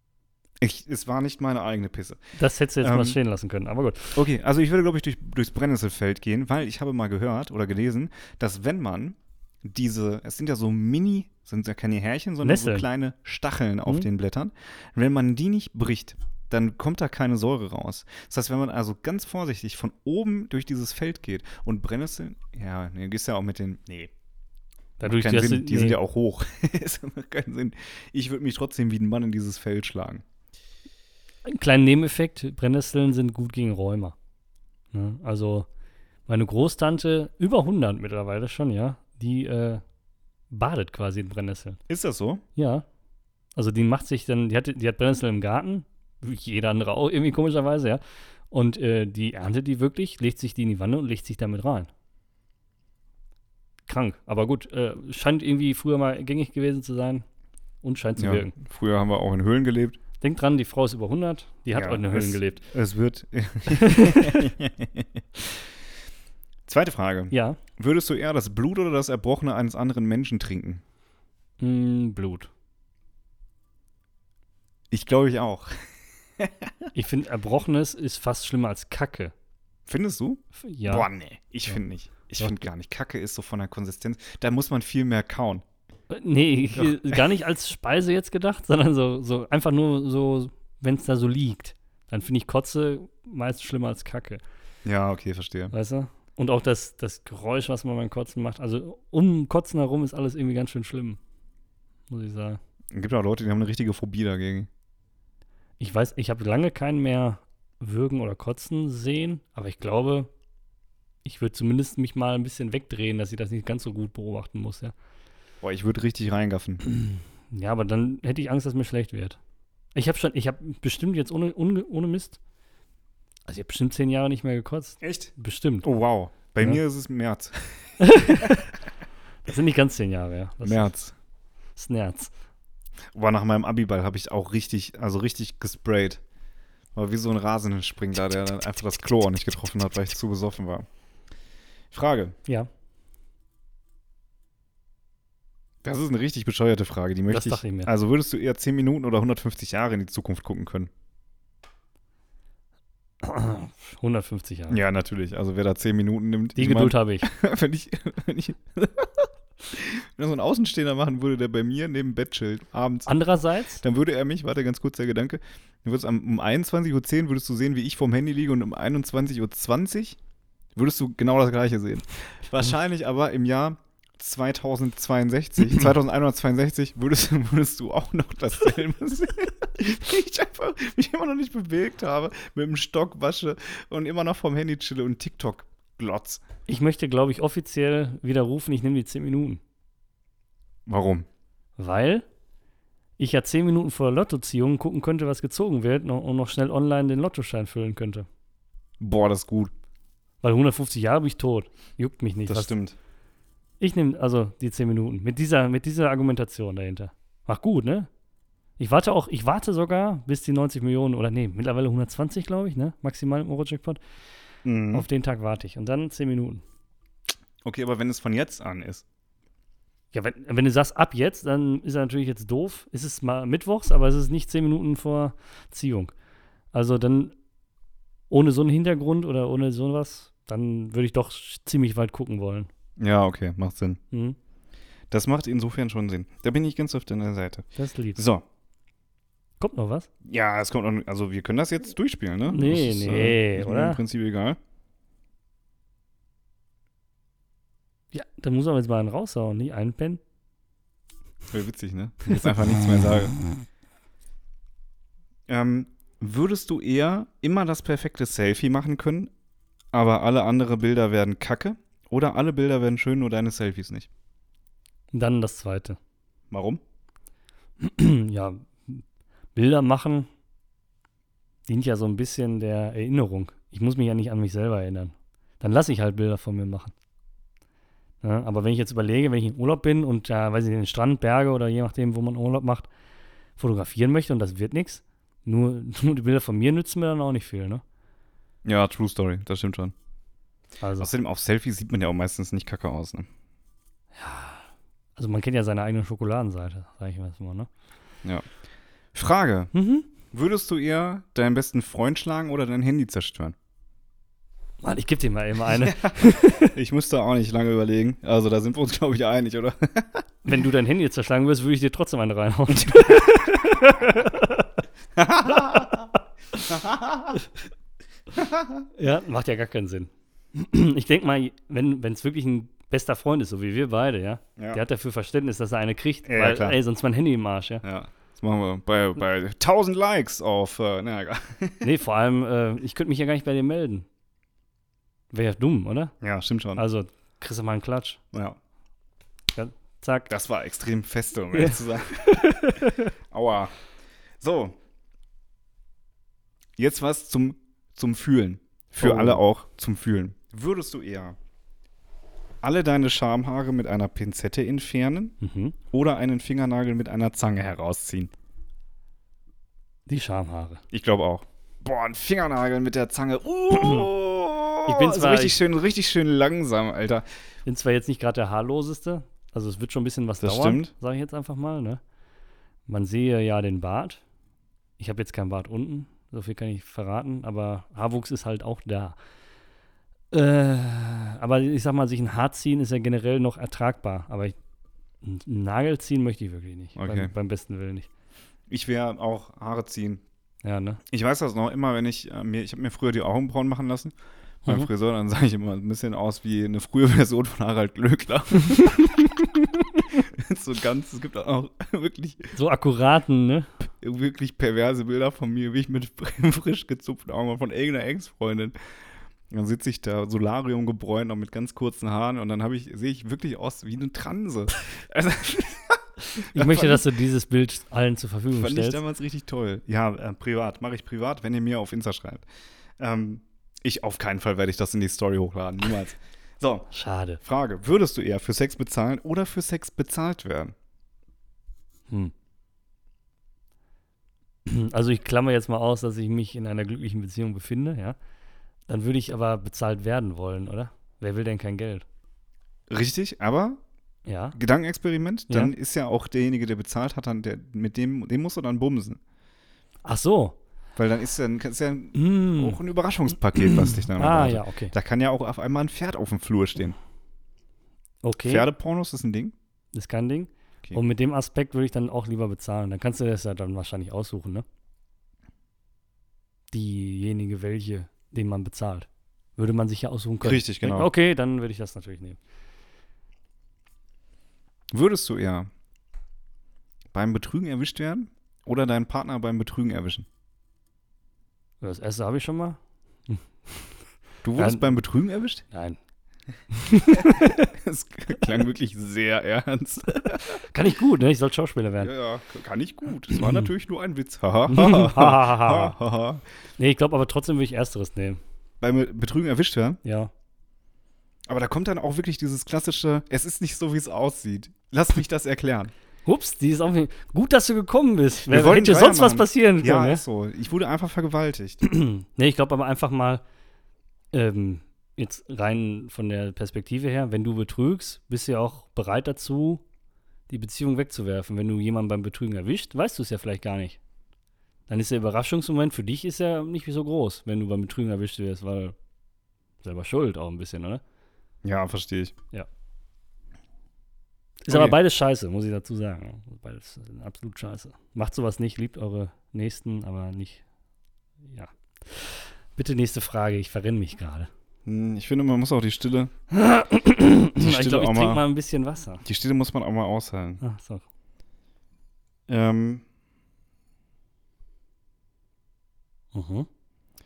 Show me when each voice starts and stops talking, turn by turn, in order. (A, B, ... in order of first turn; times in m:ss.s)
0:00.6-0:02.2 A
0:02.4-0:04.2 B
0:02.8-0:03.2 A
0:04.1-0:24.1 A
0:12.4-0:12.8 B
0:25.0-0:26.0 B
0:25.0-0:30.2 A
0:31.4-0:34.1 B
0:34.9-0:35.7 B
0:36.3-0:39.8 B
0:40.5-0:41.8 B
0:41.9-0:42.4 A
0:42.6-0:42.8 B
0:43.6-0:51.9 B
0:53.9-0:57.2 B
0:57.8-0:58.5 B
0:58.2-1:00.0 A
1:00.2-1:02.6 B
1:01.7-1:05.2 A
1:03.7-1:04.5 B
1:06.7-1:10.8 A
1:07.3-1:07.6 B
1:11.6-1:12.5 B
1:14.9-1:15.7 A
1:16.4-1:16.9 A
1:16.9-1:19.3 B
1:19.9-1:25.6 A
1:20.6-1:21.1 B
1:26.1-1:34.4 B
1:26.7-1:27.2 A
1:34.8-1:35.7 A
1:35.7-1:41.2 B
1:42.1-1:42.6 B
1:42.9-1:44.7 A
1:45.8-1:50.3 B
1:51.2-1:54.9 B
1:55.6-1:56.8 A
1:56.8-1:59.4 B
1:59.9-2:02.4 B
2:03.5-2:05.9 B
2:05.0-2:05.3 A
2:05.8-2:08.6 A
2:08.0-2:08.7 B
2:09.4-2:10.9 B
2:10.6-2:11.1 A
2:11.8-2:12.3 B
2:13.1-2:16.2 A
2:16.9-2:20.9 A
2:21.9-2:22.4 A
2:25.8-2:30.9 A
2:27.3-2:27.9 B
2:33.2-2:34.8 B
2:34.7-2:43.1 A
2:36.6-2:37.3 B
2:43.0-2:43.8 B
2:43.8-2:50.2 A
2:50.7-3:06.4 A
3:06.7-3:09.6 B
3:10.9-3:11.3 A
3:11.8-3:12.2 B
3:13.2-3:18.3 B
3:19.0-3:19.7 A
3:20.4-3:22.7 B
3:22.5-3:23.0 A
3:23.8-3:28.1 B
3:28.8-3:34.0 B
3:34.6-3:35.0 A
3:34.9-3:36.6 B
3:37.6-3:39.0 A
3:40.1-3:46.1 B
3:46.7-3:47.3 B
3:48.3-3:52.7 B
3:53.0-3:54.0 A
3:55.1-3:58.4 A
3:57.8-3:58.2 B
3:59.6-4:00.1 B
4:00.2-4:04.6 A
4:02.5-4:04.0 B
4:08.1-4:10.2 B
4:11.5-4:13.4 A
4:15.5-4:19.3 A
4:19.9-4:24.1 A
4:25.1-4:26.0 B
4:26.5-4:26.8 A
4:27.8-4:29.0 B
4:29.5-4:30.3 B
4:31.7-4:36.9 B
4:38.2-4:42.9 B
4:43.6-4:47.8 B
4:48.6-4:49.9 A
4:50.8-4:51.1 B
4:51.0-4:53.3 A
4:54.2-4:57.7 B
4:59.1-4:59.7 A
4:59.7-5:00.1 B
5:00.3-5:03.6 A
5:04.8-5:06.7 B
5:05.8-5:10.2 A
5:10.4-5:14.7 B
5:12.7-5:13.9 A
5:15.2-5:16.1 A
5:15.5-5:15.9 B
5:16.7-5:17.4 A
5:18.3-5:18.8 A
5:18.9-5:27.8 B
5:24.6-5:24.8 A
5:26.2-5:26.8 A
5:27.8-5:31.9 A
5:31.8-5:34.0 B
5:35.3-5:36.1 B
5:36.2-5:36.8 A
5:36.8-5:38.2 B
5:38.3-5:38.6 A
5:39.5-5:40.3 B
5:40.3-5:42.7 A
5:41.5-5:43.1 B
5:43.3-5:43.7 A
5:44.4-5:44.8 A
5:46.8-5:51.4 A
5:49.0-5:49.4 B
5:52.6-5:55.3 A
5:55.4-5:55.8 B
5:55.9-5:58.3 A
6:00.1-6:00.8 B
6:00.9-6:07.2 A
6:04.8-6:05.6 B
6:07.6-6:12.0 B
6:10.4-6:10.9 A
6:12.9-6:14.2 B
6:15.0-6:19.2 B
6:20.3-6:24.6 B
6:25.2-6:28.1 B
6:27.0-6:27.3 A
6:28.7-6:30.2 A
6:30.6-6:31.0 B
6:31.1-6:34.1 A
6:34.6-6:42.5 A
6:42.5-6:43.7 B
6:44.0-6:48.7 A
6:49.5-6:57.1 A
6:56.4-6:59.0 B
6:58.5-7:02.4 A
7:03.0-7:06.9 A
7:06.9-7:07.4 B
7:07.4-7:10.7 A
7:14.6-7:18.2 B
7:18.9-7:22.0 B
7:22.9-7:23.8 A
7:24.2-7:24.6 B
7:24.5-7:29.2 A
7:30.0-7:30.6 B
7:31.0-7:37.0 A
7:32.1-7:32.8 B
7:33.6-7:34.9 B
7:38.2-7:38.7 B
7:38.4-7:39.5 A
7:39.9-7:44.6 B
7:46.7-7:52.4 B
7:50.4-7:51.1 A
7:54.9-7:55.7 A
7:57.1-8:00.3 A
8:01.8-8:03.9 B
8:04.4-8:05.6 A
8:04.6-8:04.9 B
8:05.7-8:06.0 B
8:06.7-8:07.7 B
8:07.1-8:10.6 A
8:10.5-8:12.1 B
8:12.0-8:16.4 A
8:13.3-8:13.6 B
8:14.7-8:16.0 B
8:16.8-8:18.4 B
8:18.8-8:20.0 A
8:20.0-8:20.3 B
8:21.5-8:25.9 A
8:26.2-8:30.2 B
8:28.5-8:31.8 A
8:31.8-8:33.4 B
8:34.3-8:39.8 B
8:40.5-8:44.0 B
8:44.9-8:49.0 B
8:49.8-8:51.0 B
8:51.6-8:52.3 A
8:54.6-9:00.6 B
8:54.7-8:55.0 A
9:01.4-9:04.5 B
9:04.8-9:06.3 A
9:06.5-9:09.2 B
9:07.6-9:08.5 A
9:09.2-9:10.6 A
9:10.6-9:11.0 B
9:12.5-9:13.0 A
9:16.3-9:16.7 B